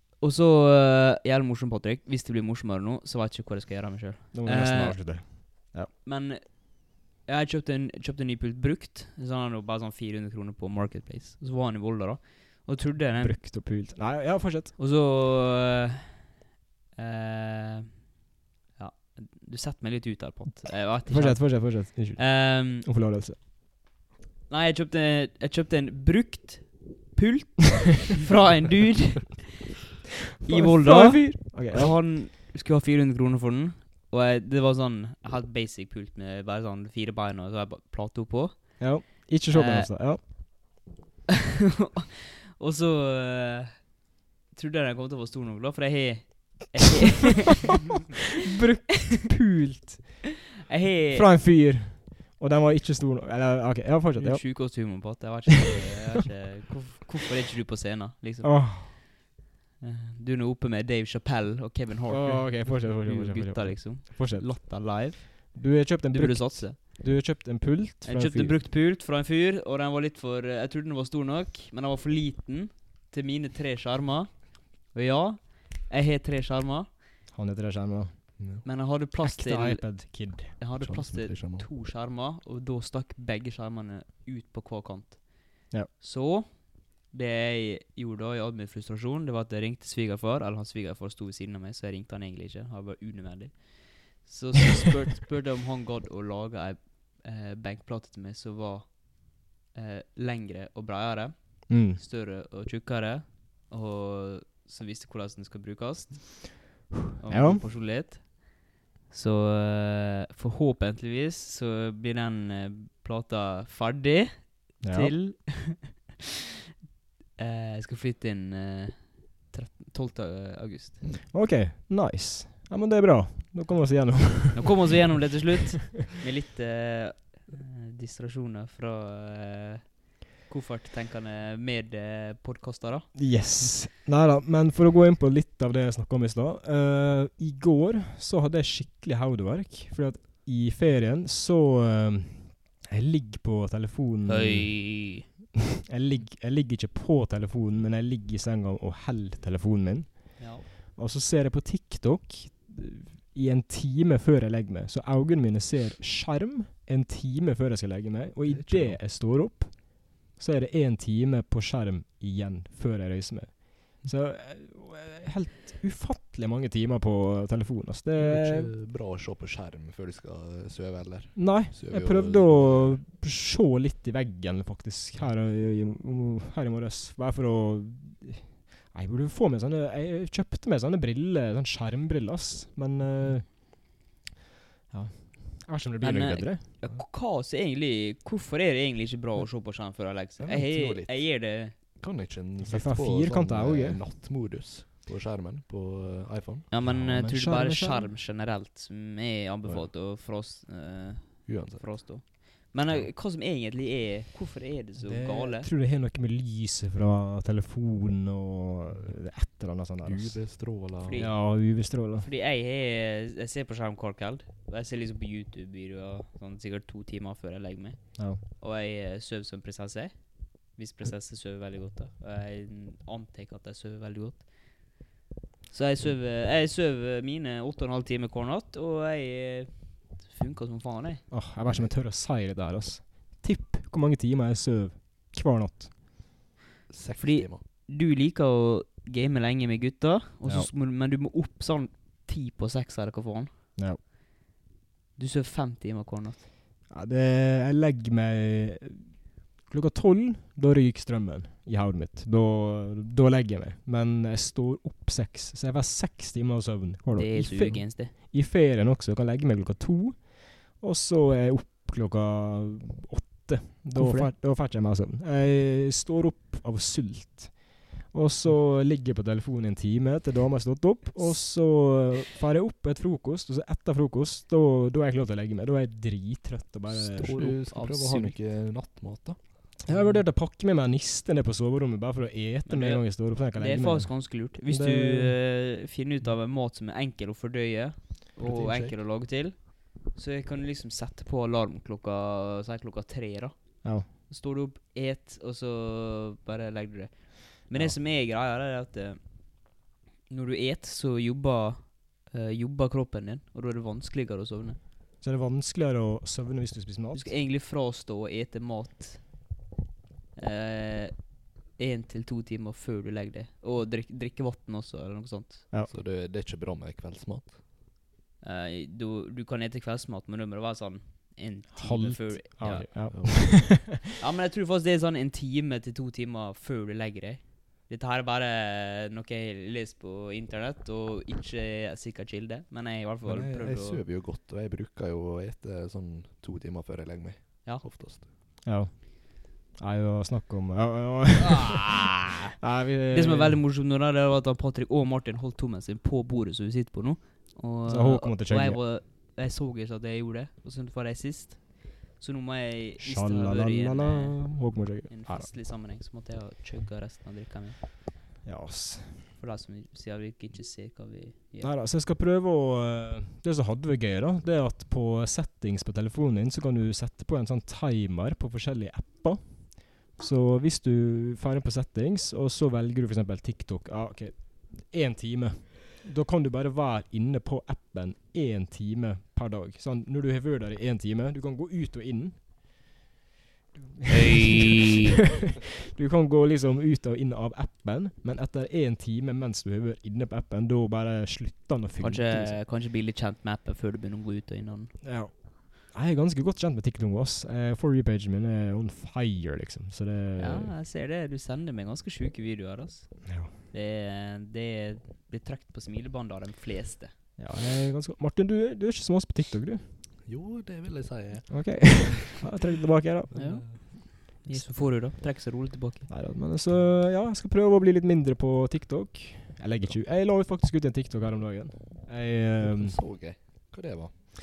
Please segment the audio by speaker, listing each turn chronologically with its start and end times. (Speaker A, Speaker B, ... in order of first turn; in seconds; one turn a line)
Speaker A: 0.2-13.4
Speaker B: 4.3-5.9
Speaker B: 13.2-14.7
Speaker A: 14.8-16.3
Speaker A: 16.9-18.1
Speaker A: 18.8-22.9
Speaker B: 21.1-23.4
Speaker A: 24.5-29.5
Speaker B: 30.4-31.9
Speaker A: 30.4-40.3
Speaker B: 38.8-40.2
Speaker A: 42.5-47.8
Speaker B: 48.5-50.3
Speaker A: 50.7-51.3
Speaker B: 51.1-55.0
Speaker A: 54.2-59.1
Speaker B: 58.4-58.9
Speaker A: 59.8-67.0
Speaker B: 62.1-68.6
Speaker A: 68.0-76.9
Speaker B: 77.3-78.3
Speaker C: 78.4-78.7
Speaker A: 78.6-116.1
Speaker B: 79.2-80.6
Speaker C: 80.8-81.7
Speaker B: 101.7-102.0
Speaker B: 107.2-107.6
Speaker B: 114.8-115.2
Speaker A: 117.4-121.0
Speaker B: 121.3-125.0
Speaker A: 124.5-133.4
Speaker B: 133.1-145.3
Speaker A: 144.2-145.2
Speaker B: 145.8-168.7
Speaker A: 150.4-150.7
Speaker C: 158.4-159.0
Speaker C: 168.2-173.0
Speaker B: 171.3-183.8
Speaker B: 184.9-186.6
Speaker A: 186.0-191.7
Speaker C: 190.4-196.7
Speaker B: 192.6-194.0
Speaker A: 196.7-205.7
Speaker B: 196.8-198.1
Speaker C: 199.6-199.9
Speaker C: 201.4-202.2
Speaker B: 205.1-210.5
Speaker C: 210.0-211.2
Speaker A: 211.0-225.1
Speaker B: 211.1-212.3
Speaker B: 218.2-218.4
Speaker A: 225.7-231.3
Speaker B: 231.3-235.9
Speaker C: 231.7-231.9
Speaker C: 236.9-237.6
Speaker A: 237.2-243.5
Speaker B: 240.4-240.7
Speaker A: 245.2-246.4
Speaker B: 246.9-277.4
Speaker A: 257.1-258.1
Speaker A: 263.9-264.3
Speaker C: 276.9-279.8
Speaker A: 277.2-278.4
Speaker B: 279.8-285.4
Speaker A: 279.9-280.2
Speaker A: 282.6-299.8
Speaker C: 288.4-289.0
Speaker B: 293.8-294.1
Speaker A: 300.3-304.8
Speaker B: 305.2-307.3
Speaker A: 307.1-309.4
Speaker A: 310.4-315.7
Speaker C: 315.9-317.6
Speaker A: 318.4-323.5
Speaker B: 321.7-324.0
Speaker C: 322.6-323.6
Speaker A: 324.2-334.0
Speaker C: 333.2-338.3
Speaker B: 338.6-342.1
Speaker A: 341.4-342.5
Speaker B: 342.6-343.6
Speaker A: 343.1-357.8
Speaker B: 347.8-348.8
Speaker B: 353.0-355.5
Speaker B: 358.4-359.3
Speaker A: 359.4-361.7
Speaker B: 361.6-382.7
Speaker B: 384.0-384.7
Speaker A: 384.1-385.1
Speaker B: 385.8-392.6
Speaker A: 392.0-395.0
Speaker B: 395.0-400.7
Speaker A: 400.4-407.1
Speaker B: 403.2-403.5
Speaker B: 407.4-409.9
Speaker C: 410.2-412.4
Speaker B: 411.5-413.8
Speaker C: 413.3-413.8
Speaker A: 413.3-416.1
Speaker B: 416.1-423.0
Speaker C: 422.6-424.2